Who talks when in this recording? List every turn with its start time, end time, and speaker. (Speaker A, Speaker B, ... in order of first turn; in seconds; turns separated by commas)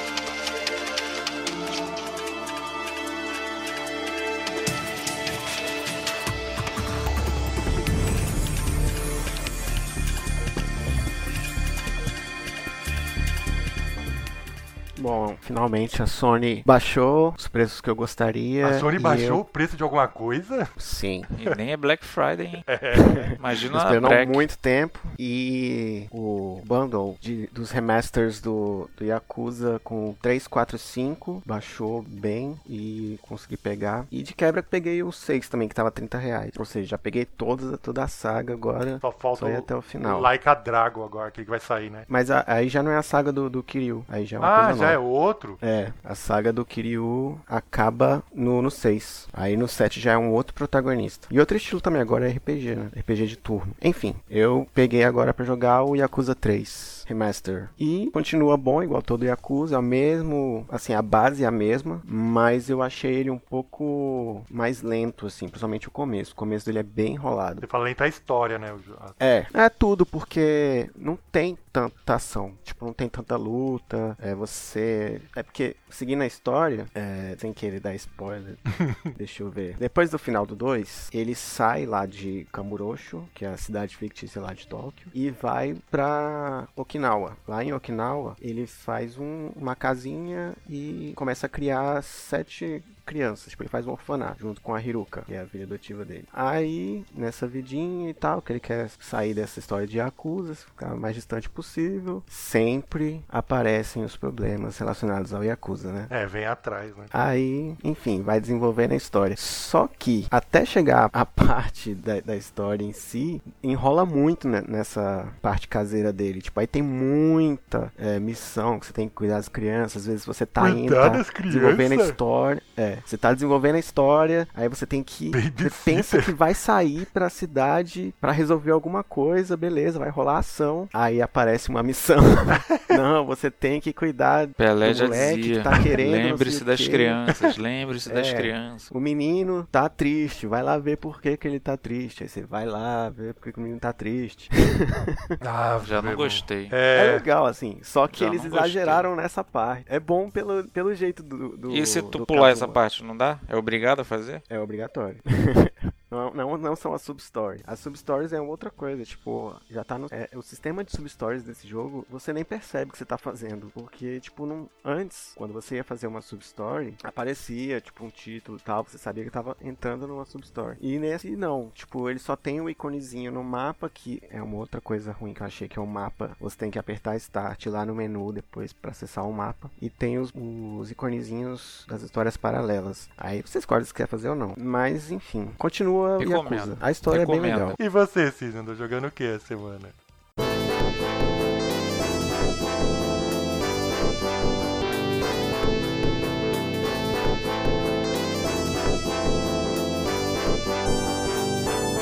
Speaker A: 14.9-19.4, Speaker B: 18.6-20.7, Speaker A: 20.8-21.3, Speaker C: 21.4-22.6, Speaker B: 22.6-23.4, Speaker A: 22.9-40.3, Speaker C: 23.4-24.5, Speaker B: 39.0-42.1, Speaker A: 42.1-45.0, Speaker B: 44.4-45.6, Speaker A: 45.6-67.6, Speaker B: 67.6-69.2, Speaker A: 69.2-106.1, Speaker B: 78.8-79.1, Speaker B: 106.1-107.1, Speaker A: 107.1-137.2, Speaker B: 120.6-122.2, Speaker B: 125.3-126.3, Speaker B: 132.5-133.0, Speaker C: 134.6-138.9, Speaker A: 138.1-145.3, Speaker B: 145.4-147.2, Speaker C: 145.8-146.7, Speaker A: 146.9-152.8, Speaker C: 148.1-149.1, Speaker C: 151.7-154.4, Speaker A: 154.5-187.8, Speaker C: 186.2-187.8, Speaker B: 187.8-189.9